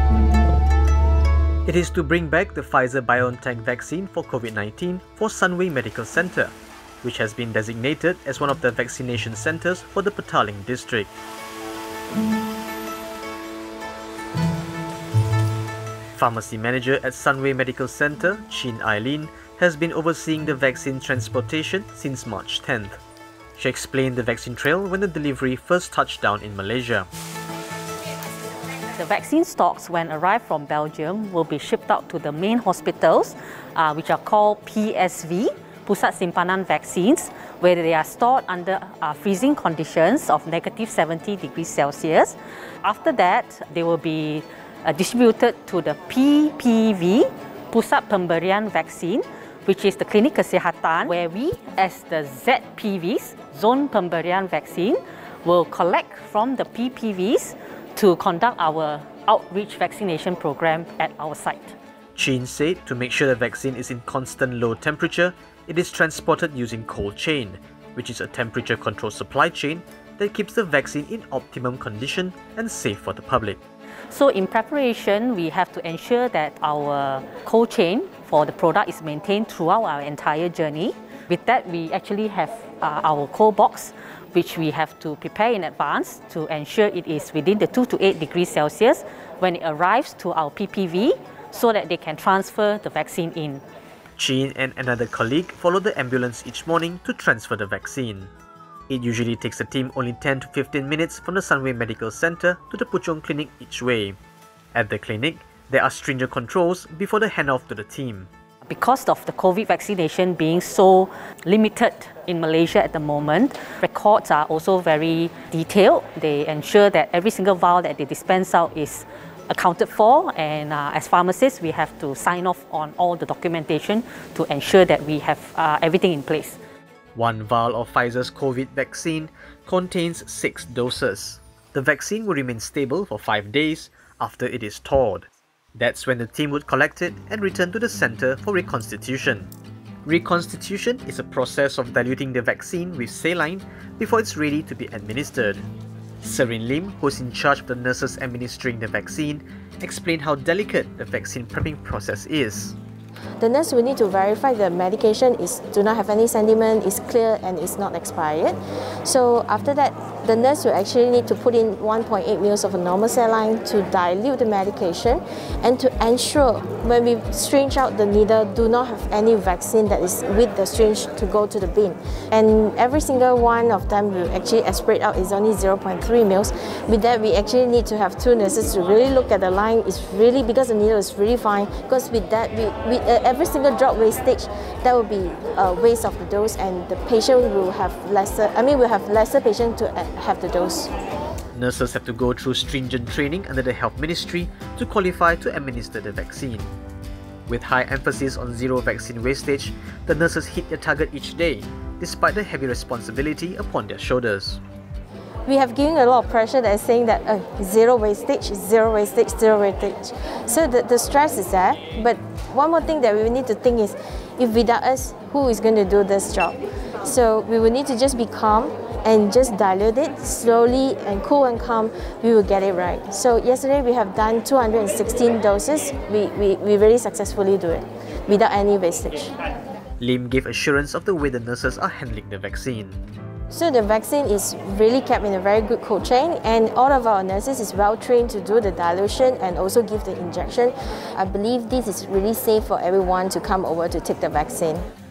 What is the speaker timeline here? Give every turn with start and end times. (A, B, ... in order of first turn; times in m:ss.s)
0:01.6-0:11.1 A
0:16.1-0:23.0 A
0:23.6-0:27.1 A
0:28.9-1:01.8 B
1:02.2-1:13.6 A
1:14.1-1:33.6 B
1:34.2-1:38.3 A
1:38.9-1:44.2 A
1:44.7-1:48.3 A
1:48.6-2:06.6 B
2:07.2-2:19.5 A
2:20.1-2:25.7 A
2:26.2-2:32.8 A
2:33.4-3:10.9 C
3:11.5-3:16.7 A
3:17.5-3:24.6 A
3:25.5-3:49.3 C
3:50.0-3:53.0 A
3:53.5-4:04.9 C